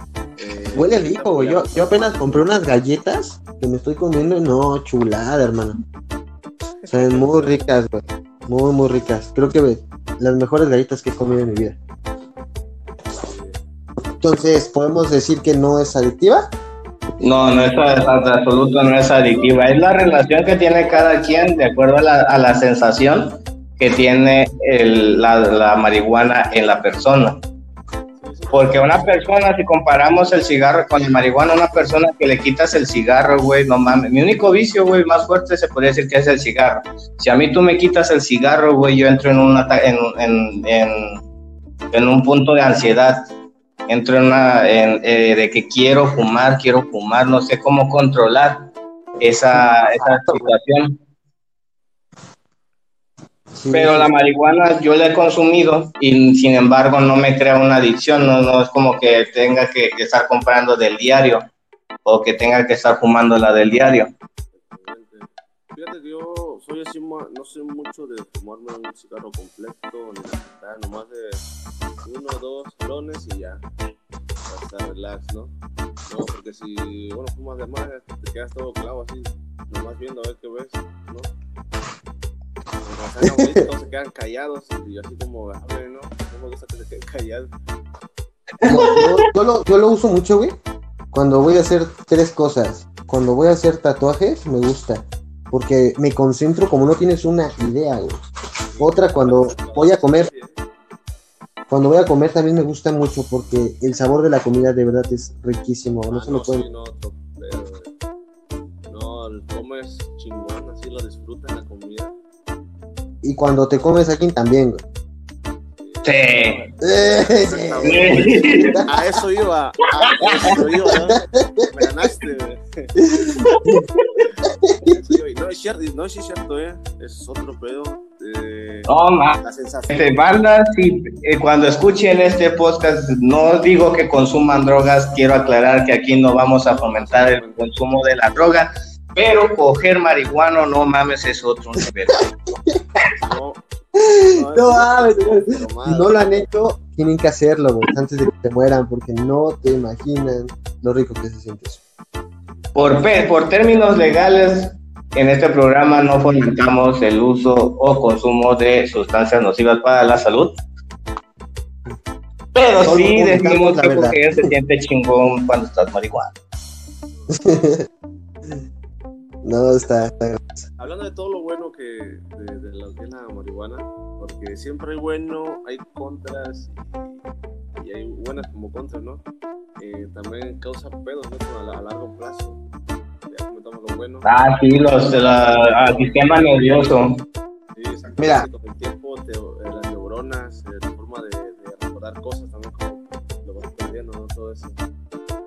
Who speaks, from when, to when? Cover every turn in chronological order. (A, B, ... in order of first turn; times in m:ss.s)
0:00.4-0:02.5 A
0:00.8-0:05.8 B
0:06.8-0:07.3 A
0:06.9-0:11.8 B
0:13.2-0:13.6 A
0:14.2-0:16.5 B
0:17.2-0:27.4 C
0:18.6-0:21.7 A
0:28.2-0:29.2 A
0:28.5-0:41.2 C
0:41.9-0:43.3 C
0:43.9-0:51.0 C
0:53.6-0:54.1 B
0:53.7-1:01.5 C
1:02.1-1:04.1 C
1:04.7-1:11.4 A
1:12.0-1:13.6 A
1:14.5-1:15.5 A
1:16.1-1:21.3 A
1:22.8-1:27.5 A
1:23.2-1:23.6 B
1:28.6-1:29.2 C
1:28.6-1:30.6 B
1:31.1-1:38.2 B
1:38.7-1:40.5 A
1:38.8-1:40.3 B
1:41.7-1:46.6 B
1:46.1-1:47.9 A
1:48.9-1:52.1 A
1:53.2-1:54.8 B
1:55.8-2:03.0 A
1:56.0-1:56.6 C
1:56.8-1:59.0 B
1:57.8-1:58.8 C
2:00.2-2:00.5 C
2:00.9-2:01.7 B
2:03.0-2:03.8 B
2:03.5-2:03.8 C
2:04.5-2:05.0 B
2:04.8-2:10.2 A
2:08.9-2:09.4 C
2:09.9-2:22.3 C
2:16.7-2:17.6 A
2:23.2-2:23.6 A
2:24.0-2:31.8 B
2:24.3-2:26.2 A
2:32.8-2:40.6 C
2:42.6-2:46.3 C
2:42.8-2:44.5 B
2:47.3-2:47.9 B
2:49.4-2:50.6 B
2:50.8-2:59.2 A
2:59.8-3:02.6 A
3:03.3-3:04.3 A
3:04.2-3:07.2 C
3:05.1-3:06.5 A
3:07.8-3:14.8 A
3:08.2-3:08.5 B